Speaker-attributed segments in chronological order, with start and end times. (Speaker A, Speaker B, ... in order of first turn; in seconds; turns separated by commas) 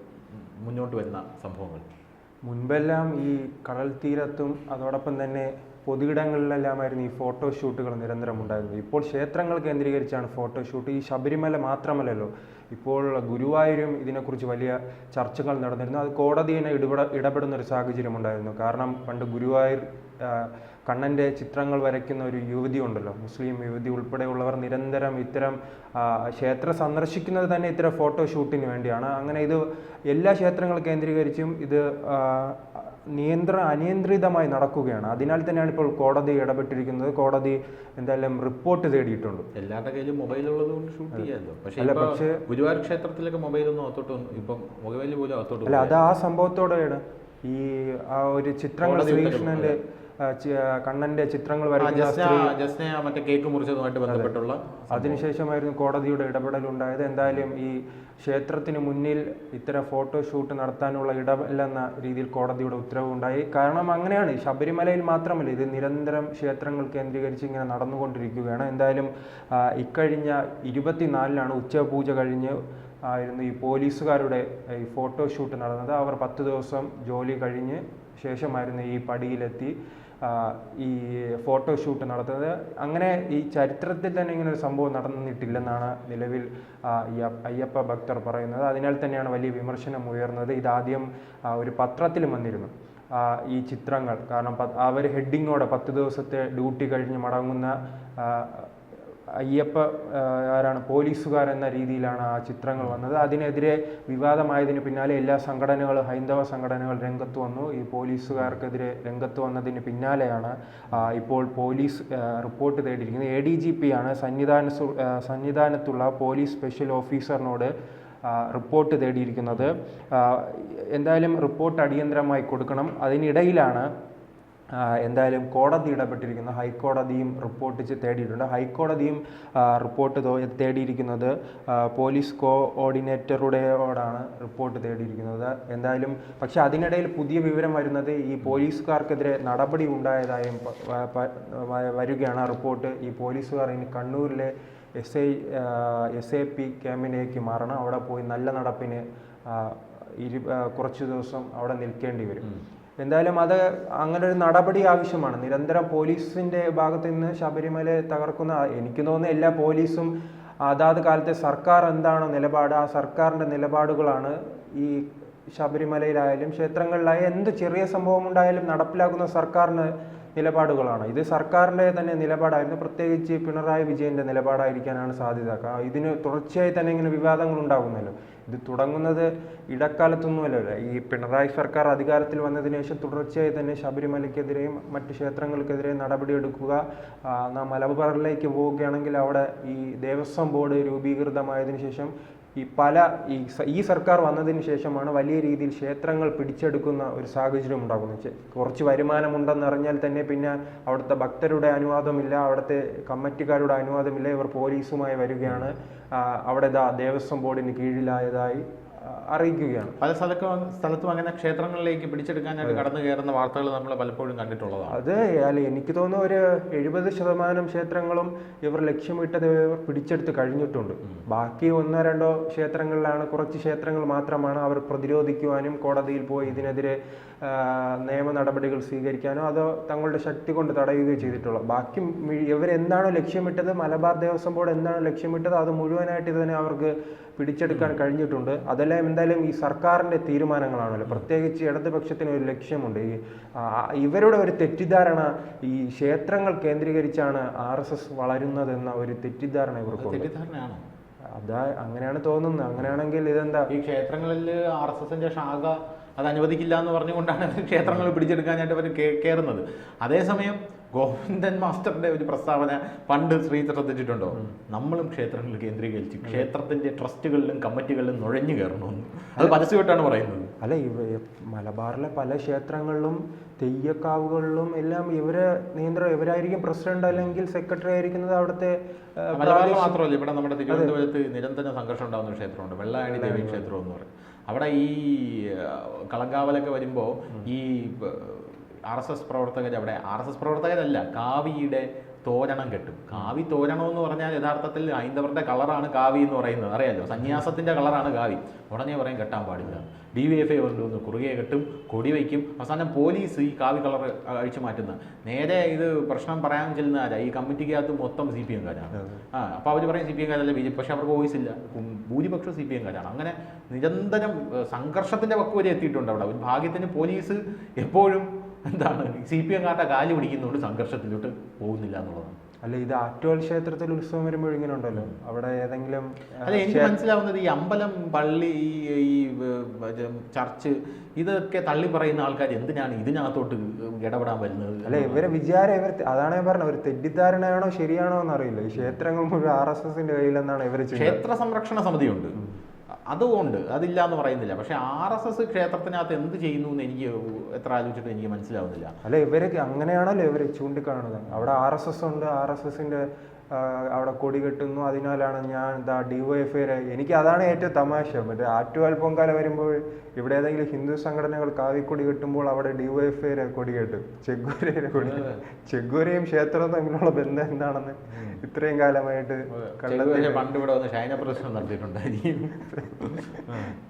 Speaker A: 0.3-1.8, Speaker B: 2.5-39.5, Speaker A: 39.5-46.0, Speaker B: 41.1-42.4, Speaker B: 45.6-52.5, Speaker A: 48.8-49.7, Speaker A: 51.8-55.2, Speaker B: 54.9-98.7, Speaker B: 99.3-117.7, Speaker B: 118.2-123.9, Speaker B: 124.8-152.5, Speaker B: 153.0-160.1, Speaker B: 160.6-210.0, Speaker A: 205.4-205.7, Speaker A: 210.0-215.0, Speaker B: 212.6-212.9, Speaker B: 214.9-250.3, Speaker A: 249.9-250.8, Speaker B: 251.3-253.7, Speaker A: 253.7-270.5, Speaker B: 266.2-266.5, Speaker B: 270.6-280.0, Speaker A: 279.3-322.4, Speaker B: 280.7-280.9, Speaker B: 283.1-283.7, Speaker B: 308.9-309.2, Speaker B: 322.6-327.0, Speaker A: 326.4-335.3, Speaker B: 334.8-341.2, Speaker A: 340.9-342.4, Speaker A: 343.1-348.9, Speaker B: 349.0-370.5, Speaker A: 365.0-365.4, Speaker A: 368.1-368.4, Speaker A: 369.5-373.8, Speaker B: 372.8-373.6